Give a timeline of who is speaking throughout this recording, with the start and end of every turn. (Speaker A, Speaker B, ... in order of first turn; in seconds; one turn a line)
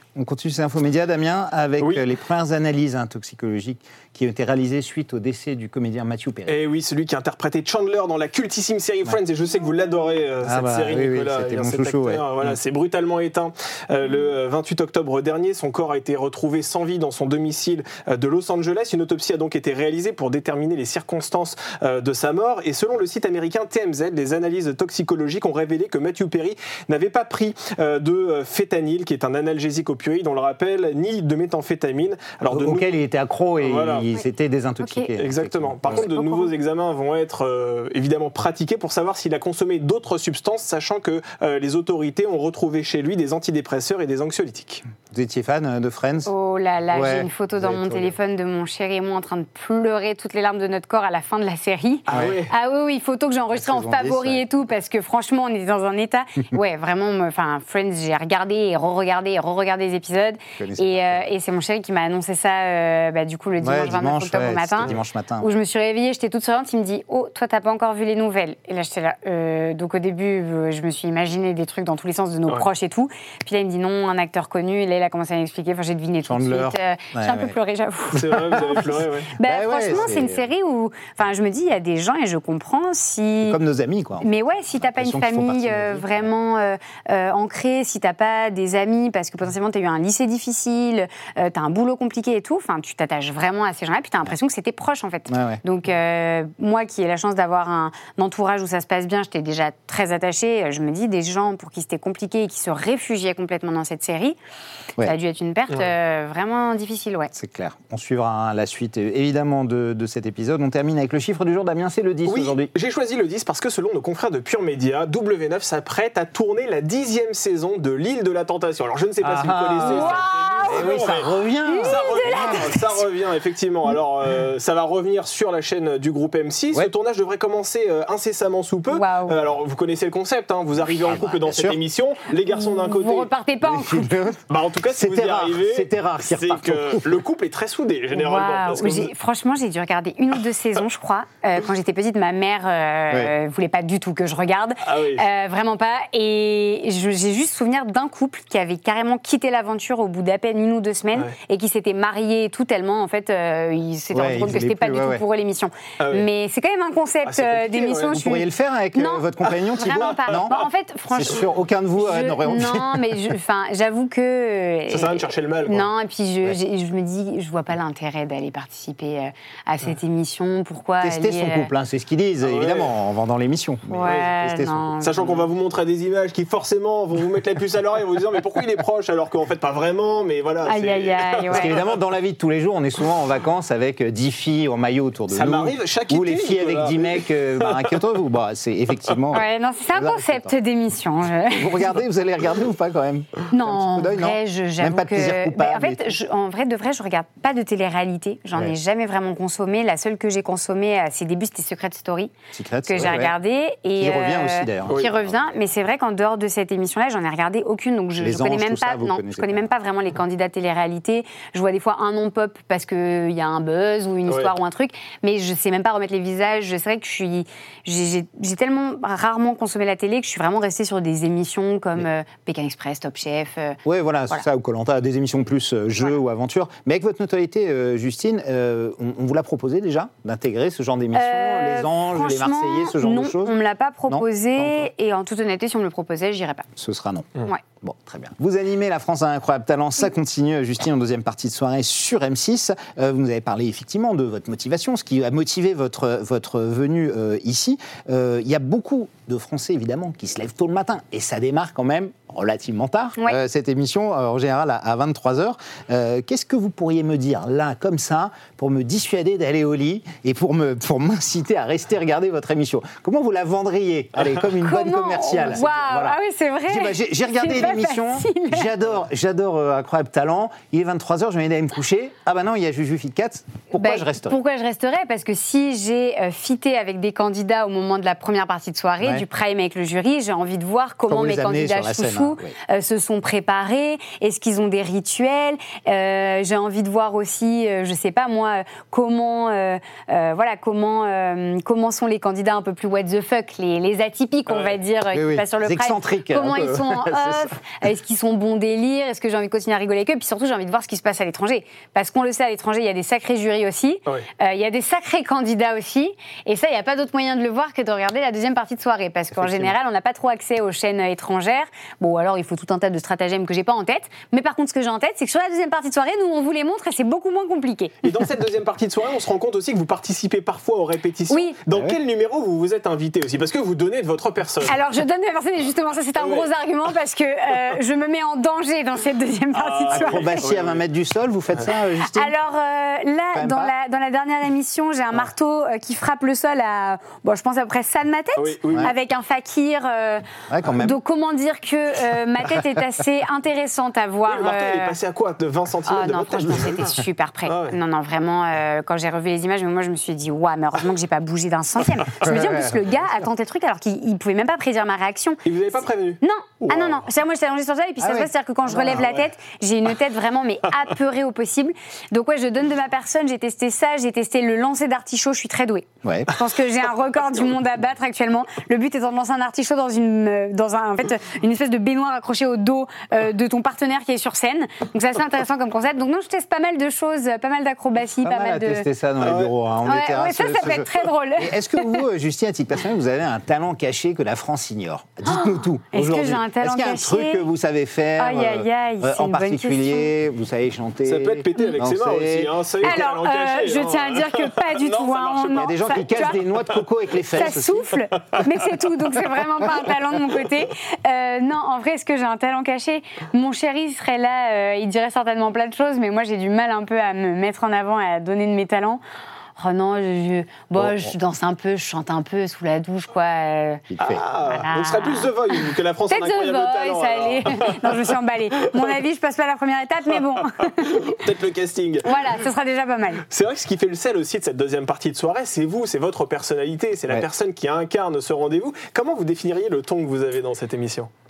Speaker A: 0.2-6.6
Speaker B: 1.8-2.0
Speaker B: 6.5-32.9
Speaker A: 10.4-12.6
Speaker A: 32.5-36.1
Speaker B: 33.6-34.1
Speaker C: 34.8-35.1
Speaker B: 35.2-44.8
Speaker C: 35.9-36.5
Speaker A: 45.1-46.3
Speaker C: 46.3-83.6
Speaker A: 46.9-48.1
Speaker B: 52.1-52.5
Speaker A: 52.1-52.4
Speaker A: 53.5-54.4
Speaker A: 60.6-61.3
Speaker A: 63.6-65.5
Speaker A: 76.3-77.5
Speaker B: 78.1-79.3
Speaker A: 78.2-78.9
Speaker A: 79.4-80.5
Speaker A: 83.4-86.3
Speaker C: 84.2-104.4
Speaker A: 95.3-95.6
Speaker C: 105.0-107.3
Speaker A: 107.3-112.7
Speaker B: 112.3-121.3
Speaker A: 119.2-122.7
Speaker C: 119.8-120.9
Speaker C: 121.7-122.9
Speaker B: 121.8-133.3
Speaker C: 128.9-129.4
Speaker A: 130.8-131.8
Speaker C: 132.5-134.2
Speaker A: 133.6-134.4
Speaker B: 134.5-139.1
Speaker A: 134.9-137.1
Speaker C: 138.1-159.2
Speaker B: 144.8-145.2
Speaker A: 154.1-155.2
Speaker B: 156.0-156.3
Speaker B: 157.2-158.2
Speaker A: 158.1-160.6
Speaker C: 159.8-161.4
Speaker A: 161.1-163.3
Speaker C: 162.0-171.7
Speaker B: 164.9-165.9
Speaker A: 171.0-174.9
Speaker B: 172.4-172.9
Speaker C: 173.9-175.4
Speaker B: 175.0-181.9
Speaker C: 180.7-181.8
Speaker A: 181.5-190.5
Speaker B: 185.3-188.0
Speaker C: 189.3-191.8
Speaker A: 191.5-196.1
Speaker C: 193.5-202.3
Speaker A: 202.5-203.3
Speaker C: 202.9-223.8
Speaker A: 204.0-205.6
Speaker A: 208.2-209.7
Speaker B: 214.3-214.5
Speaker A: 223.8-233.6
Speaker C: 231.1-236.7
Speaker A: 234.1-234.9
Speaker A: 236.8-274.4
Speaker C: 264.6-268.7
Speaker C: 273.7-317.9
Speaker A: 281.1-282.6
Speaker B: 294.5-294.8
Speaker A: 295.1-297.5
Speaker B: 318.0-324.8
Speaker C: 321.3-321.6
Speaker C: 324.7-330.4
Speaker B: 326.2-326.5
Speaker B: 329.5-330.8
Speaker A: 329.9-332.3
Speaker C: 332.1-340.2
Speaker A: 333.3-333.7
Speaker B: 338.4-338.9
Speaker A: 340.5-340.9
Speaker C: 340.8-345.0
Speaker B: 344.3-347.8
Speaker C: 345.9-355.4
Speaker A: 352.2-352.8
Speaker B: 355.4-357.0
Speaker C: 356.2-378.9
Speaker A: 358.0-359.0
Speaker B: 358.9-359.2
Speaker A: 366.0-366.3
Speaker A: 378.2-392.5
Speaker B: 379.2-379.5
Speaker C: 379.9-382.0
Speaker C: 385.2-387.4
Speaker C: 388.2-390.1
Speaker B: 391.1-396.8
Speaker C: 392.8-396.4
Speaker A: 395.5-397.9
Speaker C: 397.3-409.0
Speaker C: 409.6-413.9
Speaker A: 410.8-411.1
Speaker A: 413.9-414.2
Speaker B: 414.0-418.1
Speaker C: 414.4-415.3
Speaker C: 416.1-421.2
Speaker B: 420.7-422.2
Speaker C: 422.1-423.2
Speaker B: 423.3-431.1